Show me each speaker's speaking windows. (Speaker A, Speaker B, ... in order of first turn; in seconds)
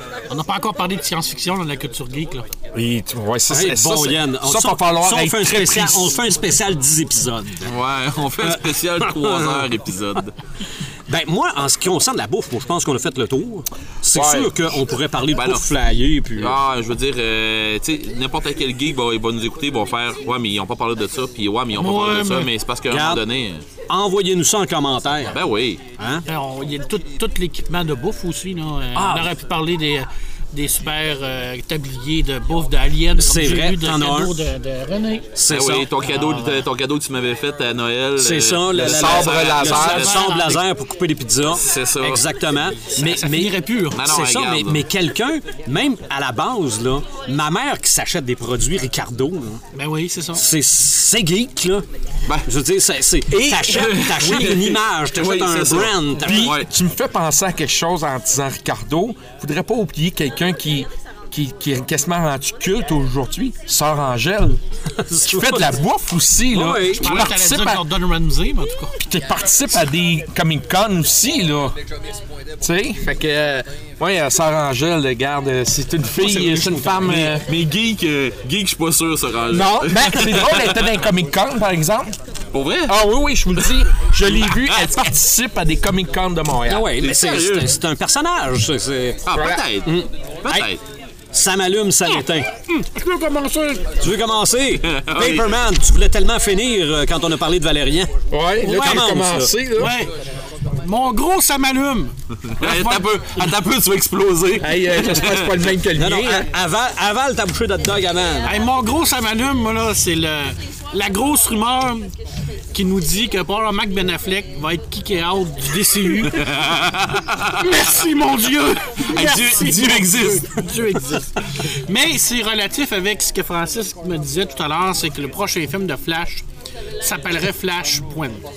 Speaker A: 0.3-2.5, 21.7-22.5, 26.3-35.3, 36.0-36.7, 39.6-40.6, 42.9-44.0, 49.7-50.4, 67.0-68.9, 92.1-94.0, 99.7-100.1, 100.8-103.5, 108.5-112.1, 112.7-116.5, 117.6-126.4, 127.0-128.4
Speaker B: 2.7-6.2, 14.1-14.6, 38.7-40.1, 53.3-54.5, 56.2-64.6, 65.2-67.8, 69.0-71.8, 72.6-77.5, 79.5-82.1, 82.9-86.9, 89.3-89.7, 98.3-100.0, 104.6-106.5
Speaker C: 3.5-7.7, 8.4-9.7, 11.1-16.6, 22.9-23.2, 23.9-25.4, 26.0-26.2, 28.9-29.3, 33.1-34.4, 35.4-35.9, 38.2-49.6, 50.4-51.9, 52.5-56.5, 65.0-65.8, 66.5-67.1, 76.2-77.3, 86.7-89.2, 89.8-90.7, 91.3-92.5, 94.0-99.5, 106.0-108.6
Speaker D: 7.7-10.3, 15.3-15.7, 16.4-23.6, 25.3-25.8, 35.5-40.1, 41.5-42.2, 43.9-44.9, 53.7-56.7, 77.4-80.8, 82.5-83.0, 84.3-84.9, 87.0-87.7, 89.3-89.9, 90.4-90.8, 94.8-95.5, 102.6-105.6, 116.3-117.7, 119.0-120.5